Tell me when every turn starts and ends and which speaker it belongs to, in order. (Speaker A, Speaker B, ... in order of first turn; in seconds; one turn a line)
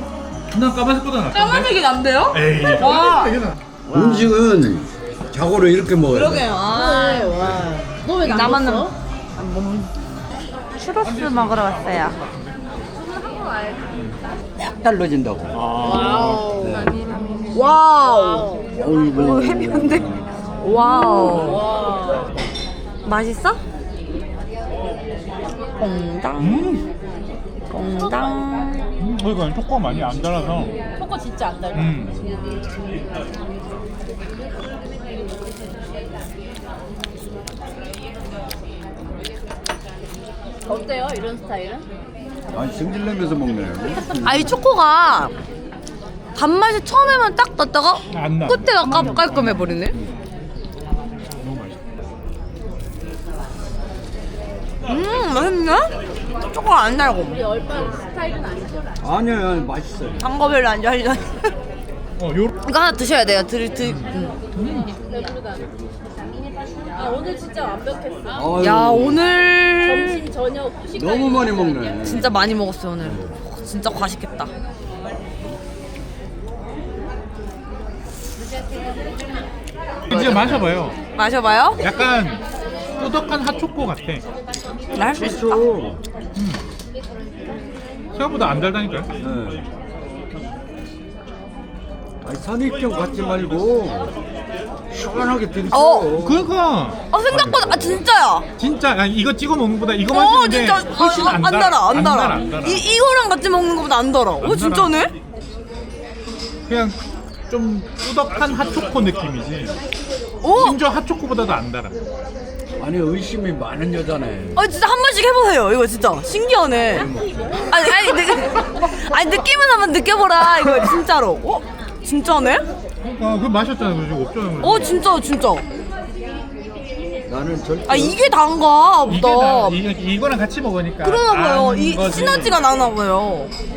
Speaker A: 0.5-3.5
Speaker B: 1.3-4.2
Speaker C: 3.9-6.6
Speaker B: 6.1-9.9
Speaker D: 6.7-8.9
Speaker B: 10.7-12.2
Speaker A: 11.0-12.5
Speaker D: 12.9-14.0
Speaker C: 14.6-15.6
Speaker A: 15.5-16.9
Speaker D: 15.8-17.4
Speaker C: 16.6-17.0
Speaker B: 17.5-20.1
Speaker D: 18.0-18.7
Speaker C: 18.7-20.3
Speaker B: 20.6-21.6
Speaker D: 20.8-22.3
Speaker A: 21.4-21.7
Speaker B: 23.0-23.6
Speaker B: 25.8-26.7
Speaker A: 26.4-26.8
Speaker B: 27.7-28.9
Speaker D: 27.7-28.8
Speaker A: 29.0-30.8
Speaker D: 30.9-32.6
Speaker A: 31.7-32.2
Speaker D: 40.6-41.9
Speaker C: 42.5-44.5
Speaker B: 44.2-45.3
Speaker B: 46.3-50.0
Speaker A: 48.1-50.1
Speaker A: 51.3-51.8
Speaker B: 54.9-55.9
Speaker B: 56.5-57.4
Speaker D: 57.2-59.0
Speaker C: 59.0-60.2
Speaker B: 60.2-61.5
Speaker A: 62.2-62.6
Speaker B: 62.6-64.3
Speaker A: 63.8-64.9
Speaker D: 64.8-68.6
Speaker C: 68.3-69.2
Speaker B: 68.6-70.2
Speaker D: 69.7-72.1
Speaker C: 70.9-72.3
Speaker B: 72.0-74.5
Speaker C: 73.0-73.3
Speaker A: 80.1-81.0
Speaker B: 80.1-80.5
Speaker B: 81.1-81.8
Speaker A: 81.8-82.4
Speaker A: 83.0-84.2
Speaker B: 84.9-85.6
Speaker C: 85.0-86.0
Speaker A: 86.3-86.6
Speaker A: 88.1-89.1
Speaker C: 89.2-89.6
Speaker C: 92.2-94.2
Speaker C: 94.9-96.5
Speaker B: 95.7-96.1
Speaker A: 96.1-98.0
Speaker B: 97.1-98.5
Speaker A: 98.6-102.9
Speaker B: 100.1-105.1
Speaker A: 104.4-105.0
Speaker A: 106.7-107.0
Speaker A: 107.5-109.8
Speaker B: 110.4-110.8
Speaker A: 110.5-111.9
Speaker C: 112.8-114.6
Speaker B: 114.5-117.1
Speaker C: 116.9-117.7
Speaker B: 117.7-122.7
Speaker A: 123.0-125.0
Speaker B: 124.6-125.7
Speaker C: 127.2-128.2
Speaker B: 127.9-129.8
Speaker A: 129.1-132.6
Speaker B: 131.0-133.5